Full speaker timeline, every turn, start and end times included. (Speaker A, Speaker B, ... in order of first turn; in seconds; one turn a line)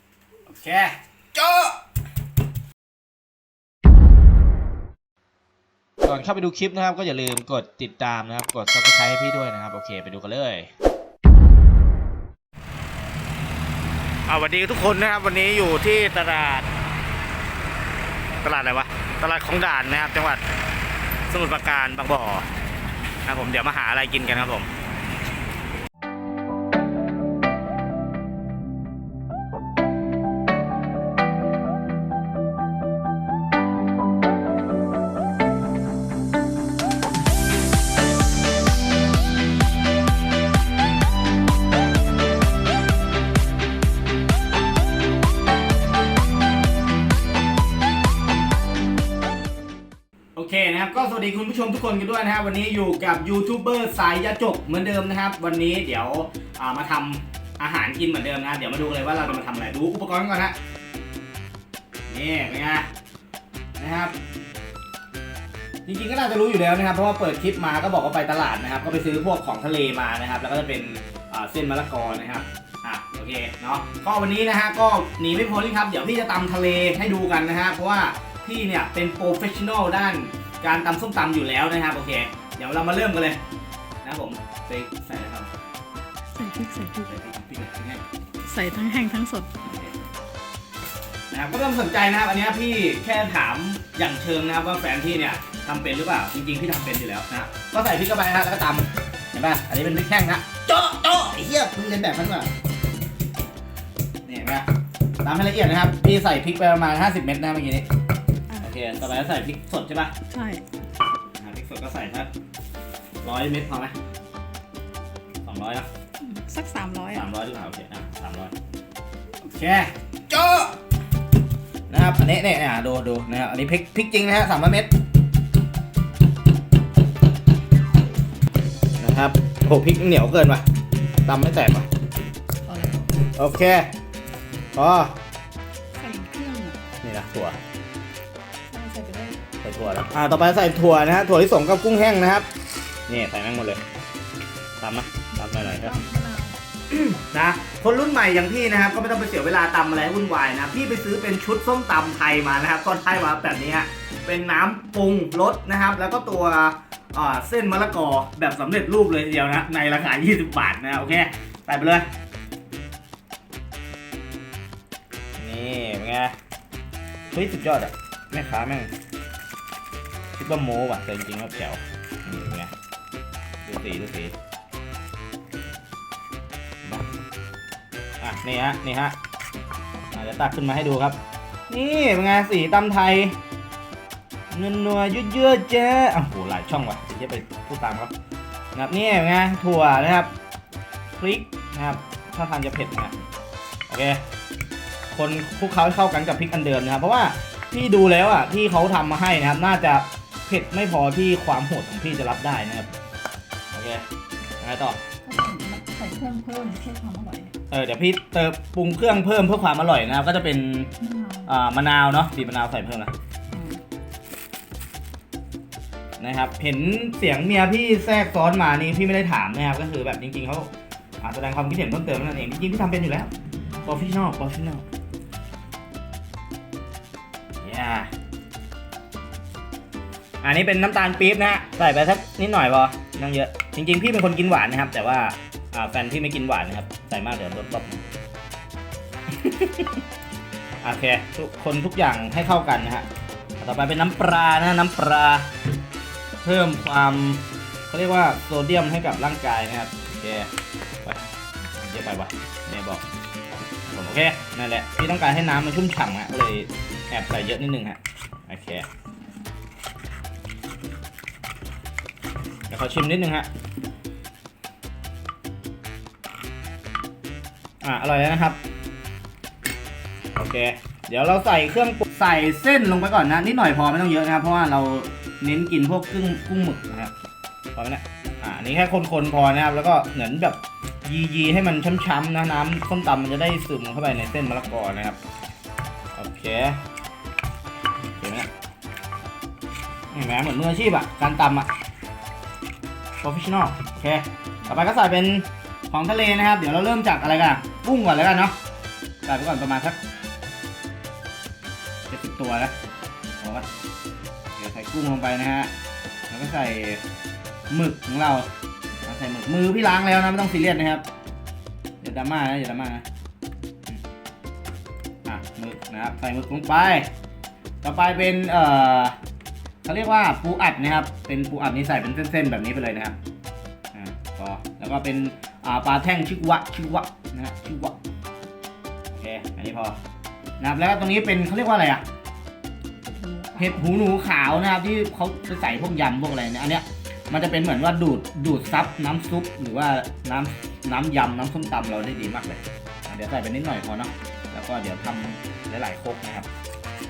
Speaker A: 0.5-1.8
Speaker A: 6.0-10.7
Speaker A: 14.3-16.7
Speaker A: 18.4-20.4
Speaker A: 21.3-22.4
Speaker A: 23.2-24.7
Speaker A: 50.3-60.5
Speaker A: 62.1-62.9
Speaker A: 63.8-64.1
Speaker A: 65.8-83.4
Speaker A: 84.0-85.5
Speaker B: 86.3-87.1
Speaker A: 87.1-88.0
Speaker B: 88.4-89.5
Speaker A: 89.6-89.9
Speaker A: 91.3-102.5
Speaker A: 104.2-104.7
Speaker A: 105.2-107.9
Speaker A: 108.6-110.1
Speaker B: 110.2-110.6
Speaker A: 111.4-112.3
Speaker A: 113.2-113.9
Speaker A: 115.4-115.9
Speaker B: 116.2-117.2
Speaker A: 117.1-118.5
Speaker A: 119.4-120.8
Speaker A: 121.9-124.9
Speaker A: 129.0-130.6
Speaker A: 131.2-131.9
Speaker B: 132.7-133.3
Speaker A: 133.3-133.9
Speaker A: 134.7-135.1
Speaker B: 135.9-136.8
Speaker A: 137.0-137.6
Speaker B: 138.7-139.4
Speaker A: 139.6-142.5
Speaker A: 143.1-143.8
Speaker A: 144.8-146.0
Speaker B: 145.4-146.6
Speaker A: 146.9-162.1
Speaker A: 165.4-166.3
Speaker A: 167.3-168.9
Speaker A: 170.3-172.7
Speaker A: 173.6-174.3
Speaker A: 178.2-179.2
Speaker A: 180.1-183.4
Speaker A: 184.5-188.1
Speaker A: 188.7-190.3
Speaker A: 191.2-193.2
Speaker A: 193.9-194.2
Speaker A: 195.1-202.9
Speaker A: 203.7-204.0
Speaker A: 204.6-205.0
Speaker B: 205.2-207.5
Speaker A: 207.7-210.9
Speaker B: 211.0-211.5
Speaker A: 211.5-213.1
Speaker B: 213.5-213.8
Speaker A: 216.2-220.7
Speaker A: 221.2-223.3
Speaker A: 223.8-224.8
Speaker A: 227.6-228.1
Speaker A: 230.4-238.0
Speaker A: 239.3-240.0
Speaker A: 240.8-243.1
Speaker A: 243.6-245.5
Speaker A: 246.4-250.5
Speaker A: 251.0-253.0
Speaker A: 253.8-258.9
Speaker A: 262.7-263.5
Speaker A: 267.8-268.6
Speaker A: 270.4-277.1
Speaker A: 277.8-285.2
Speaker A: 286.1-286.8
Speaker A: 288.2-288.5
Speaker A: 290.1-291.7
Speaker A: 293.2-298.6
Speaker A: 299.2-300.0
Speaker A: 302.1-302.7
Speaker A: 303.4-303.7
Speaker A: 304.6-305.7
Speaker A: 306.3-307.0
Speaker A: 307.7-308.5
Speaker A: 309.0-311.0
Speaker A: 312.0-313.0
Speaker A: 315.2-317.1
Speaker A: 317.8-319.1
Speaker A: 319.9-323.2
Speaker A: 323.9-328.0
Speaker A: 329.1-330.0
Speaker A: 330.6-332.0
Speaker B: 333.0-333.9
Speaker A: 333.6-346.5